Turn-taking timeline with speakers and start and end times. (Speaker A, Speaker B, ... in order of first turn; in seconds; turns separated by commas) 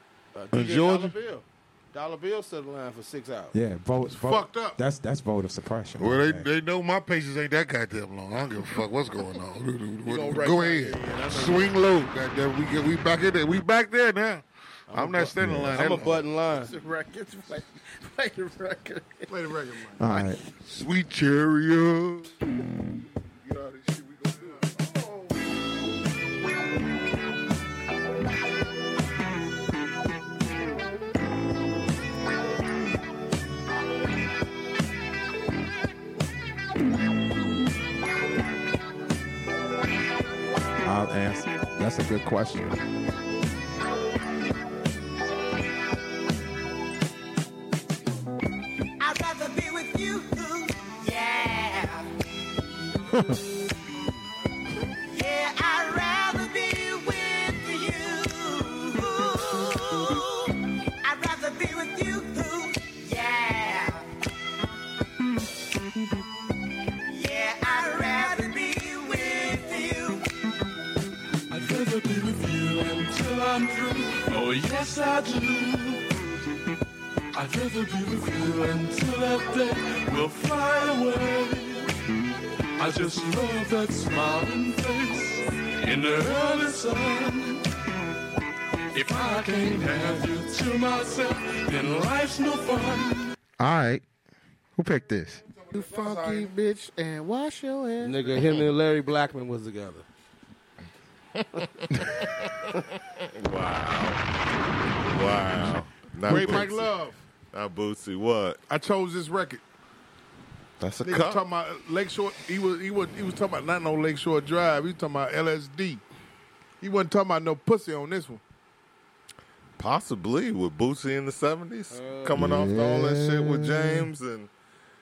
Speaker A: 0.3-3.5, Speaker B: 0.5-1.2, Speaker C: 3.5-6.5, Speaker D: 4.1-4.8, Speaker B: 6.0-16.3, Speaker D: 10.1-11.8, Speaker A: 14.9-16.7, Speaker C: 15.4-15.7, Speaker E: 16.5-19.3, Speaker D: 19.3-20.0, Speaker C: 20.0-20.4, Speaker E: 20.1-20.3, Speaker B: 20.6-22.4, Speaker B: 23.4-24.6, Speaker E: 24.6-25.4, Speaker C: 40.8-42.8, Speaker F: 49.0-52.1, Speaker F: 55.1-64.0, Speaker F: 67.1-70.2, Speaker G: 71.5-76.0, Speaker G: 77.4-81.9, Speaker G: 82.8-87.6, Speaker G: 88.9-93.3, Speaker C: 93.6-94.0, Speaker C: 94.8-95.4, Speaker B: 95.7-96.5, Speaker E: 95.7-98.5, Speaker A: 98.0-100.0, Speaker H: 102.1-104.2, Speaker H: 105.0-106.9, Speaker D: 106.2-107.2, Speaker H: 107.5-108.6, Speaker D: 108.7-109.6, Speaker H: 110.8-111.4, Speaker D: 111.0-116.0, Speaker D: 116.8-118.4, Speaker H: 119.8-124.5, Speaker A: 121.9-122.4, Speaker C: 122.4-124.1